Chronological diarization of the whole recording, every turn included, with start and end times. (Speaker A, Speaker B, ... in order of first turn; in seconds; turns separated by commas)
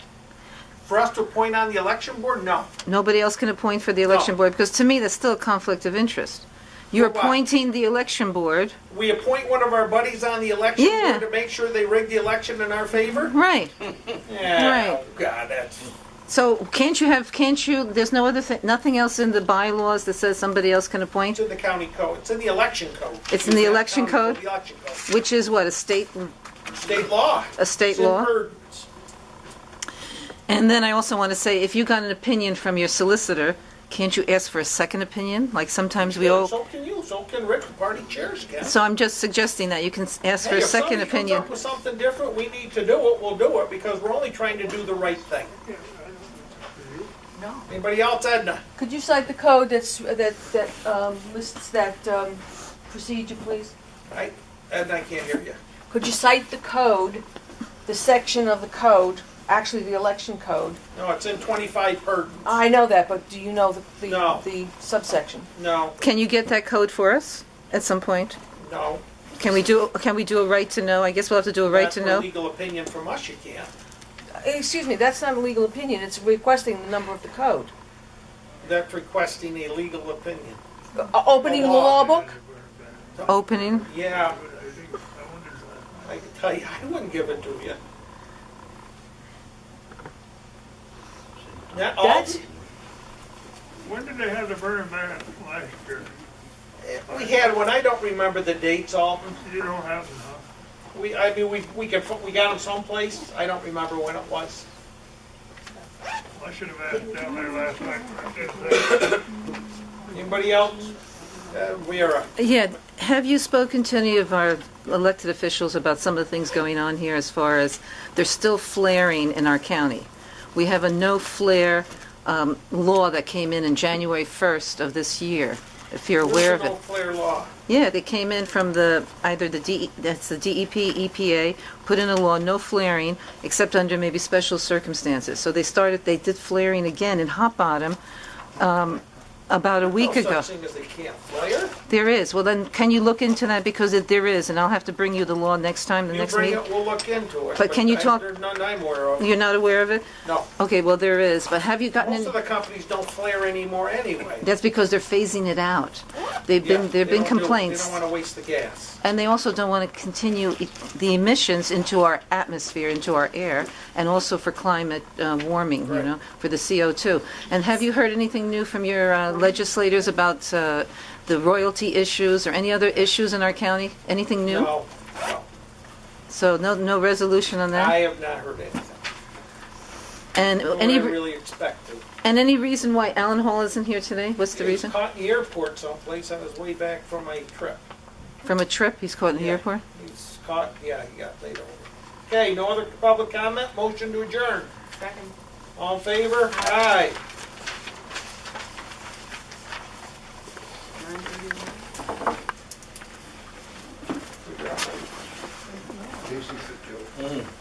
Speaker A: 0.8-2.7, Speaker B: 2.9-8.8, Speaker A: 4.0-4.3, Speaker A: 6.9-7.4, Speaker A: 8.9-13.3, Speaker B: 10.8-11.2, Speaker B: 13.2-13.7, Speaker A: 14.2-15.9, Speaker B: 14.5-15.0, Speaker B: 16.3-21.4, Speaker A: 21.3-25.0, Speaker B: 23.3-24.4, Speaker B: 25.1-26.3, Speaker A: 26.7-28.9, Speaker B: 27.6-28.3, Speaker B: 30.5-36.5, Speaker A: 36.0-38.8, Speaker B: 38.6-41.5, Speaker A: 40.4-45.5, Speaker C: 45.6-47.1, Speaker D: 47.4-47.6, Speaker A: 47.7-48.6, Speaker D: 48.8-53.7, Speaker A: 54.1-55.6, Speaker D: 55.9-57.2, Speaker D: 57.9-60.8, Speaker A: 60.9-62.6, Speaker D: 62.4-65.5, Speaker A: 64.0-64.4, Speaker A: 65.5-66.0, Speaker B: 66.0-68.4, Speaker A: 68.6-69.0, Speaker B: 69.4-72.3, Speaker A: 71.7-73.7, Speaker D: 74.4-77.7, Speaker A: 78.6-80.6, Speaker D: 80.9-82.3, Speaker A: 81.4-82.0, Speaker C: 81.8-86.1, Speaker A: 83.2-84.4, Speaker B: 83.2-83.9, Speaker A: 86.0-87.8, Speaker A: 91.7-92.4, Speaker D: 92.0-92.4, Speaker C: 93.8-96.1, Speaker A: 96.8-99.4, Speaker C: 97.1-97.5, Speaker C: 99.4-100.4, Speaker A: 100.9-104.7, Speaker C: 106.3-109.2, Speaker A: 110.1-110.9, Speaker A: 111.5-112.3, Speaker B: 112.4-126.8, Speaker A: 126.2-127.5, Speaker B: 127.7-138.0, Speaker B: 138.6-140.5, Speaker A: 139.8-141.7, Speaker B: 141.9-146.6, Speaker A: 146.1-149.2, Speaker B: 147.6-148.2, Speaker B: 149.2-152.3, Speaker A: 150.2-150.5, Speaker A: 152.0-154.5, Speaker B: 154.4-158.0, Speaker A: 156.6-159.0, Speaker B: 159.0-174.7, Speaker A: 174.4-175.4, Speaker B: 176.3-178.0, Speaker A: 177.7-179.0, Speaker B: 180.3-181.3, Speaker A: 180.6-182.0, Speaker B: 182.2-184.9, Speaker A: 184.5-187.8, Speaker B: 188.4-189.8, Speaker A: 189.3-194.7, Speaker D: 195.0-195.3, Speaker A: 195.8-197.2, Speaker D: 201.0-201.8, Speaker A: 204.4-205.0, Speaker D: 205.7-206.4